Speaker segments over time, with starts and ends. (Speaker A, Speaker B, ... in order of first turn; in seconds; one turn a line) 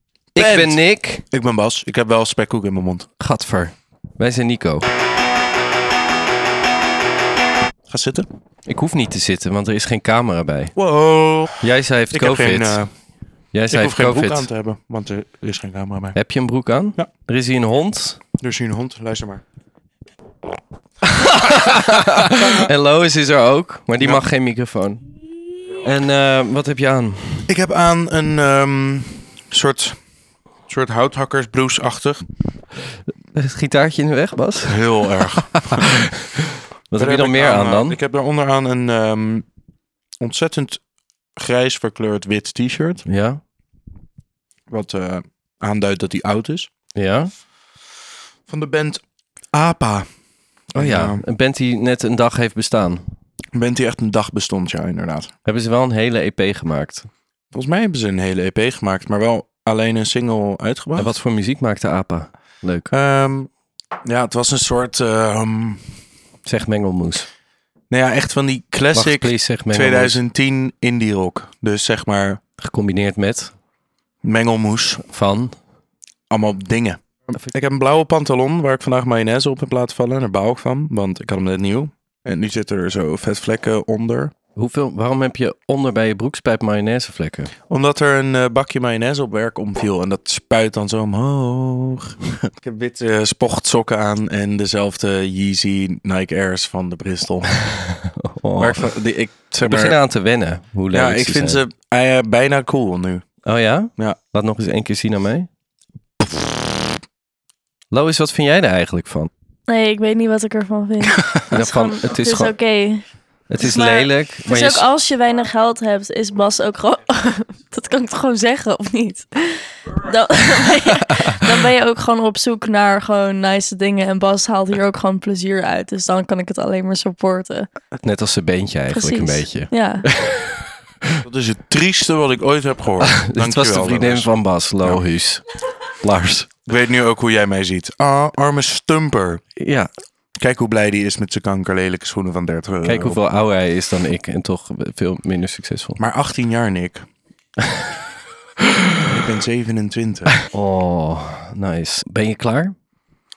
Speaker A: 0.3-1.2
Speaker B: 0.3-3.1
Speaker A: 3.2-4.9
Speaker B: 7.9-8.3
Speaker A: 8.7-10.7
Speaker B: 10.7-12.9
Speaker A: 11.6-12.8
Speaker A: 13.5-14.5
Speaker B: 13.7-16.2
Speaker A: 16.1-18.2
Speaker B: 18.4-19.4
Speaker A: 21.2-25.0
Speaker A: 25.8-27.5
Speaker B: 27.5-30.0
Speaker B: 30.7-32.2
Speaker A: 33.3-34.8
Speaker B: 34.7-35.9
Speaker A: 35.3-36.3
Speaker A: 36.9-38.0
Speaker B: 36.9-39.5
Speaker B: 40.2-40.8
Speaker B: 41.4-43.0
Speaker A: 43.0-43.4
Speaker B: 44.7-46.7
Speaker A: 47.0-47.3
Speaker B: 48.5-50.1
Speaker A: 50.7-53.1
Speaker B: 50.7-51.2
Speaker B: 53.5-55.3
Speaker A: 55.5-57.1
Speaker B: 57.5-61.2
Speaker A: 61.0-62.9
Speaker B: 62.9-63.5
Speaker B: 64.0-66.0
Speaker A: 66.5-67.3
Speaker B: 67.9-72.4
Speaker A: 68.9-70.2
Speaker A: 72.6-73.5
Speaker B: 74.2-75.0
Speaker A: 75.0-75.6
Speaker B: 76.3-84.3
Speaker A: 84.5-87.5
Speaker B: 87.7-97.6
Speaker A: 97.6-99.0
Speaker B: 98.6-100.0
Speaker A: 99.6-101.6
Speaker B: 100.9-103.3
Speaker A: 103.4-105.5
Speaker A: 107.9-109.3
Speaker C: 109.7-113.0
Speaker A: 111.5-112.5
Speaker A: 113.5-114.9
Speaker C: 113.6-127.7
Speaker A: 128.0-131.2
Speaker C: 128.9-130.1
Speaker B: 131.2-135.0
Speaker A: 133.0-135.4
Speaker A: 136.0-136.5
Speaker B: 136.7-139.4
Speaker A: 139.6-139.9
Speaker B: 140.4-143.2
Speaker A: 142.8-146.0
Speaker B: 146.0-147.0
Speaker A: 147.7-147.9
Speaker B: 149.0-150.3
Speaker A: 150.4-152.8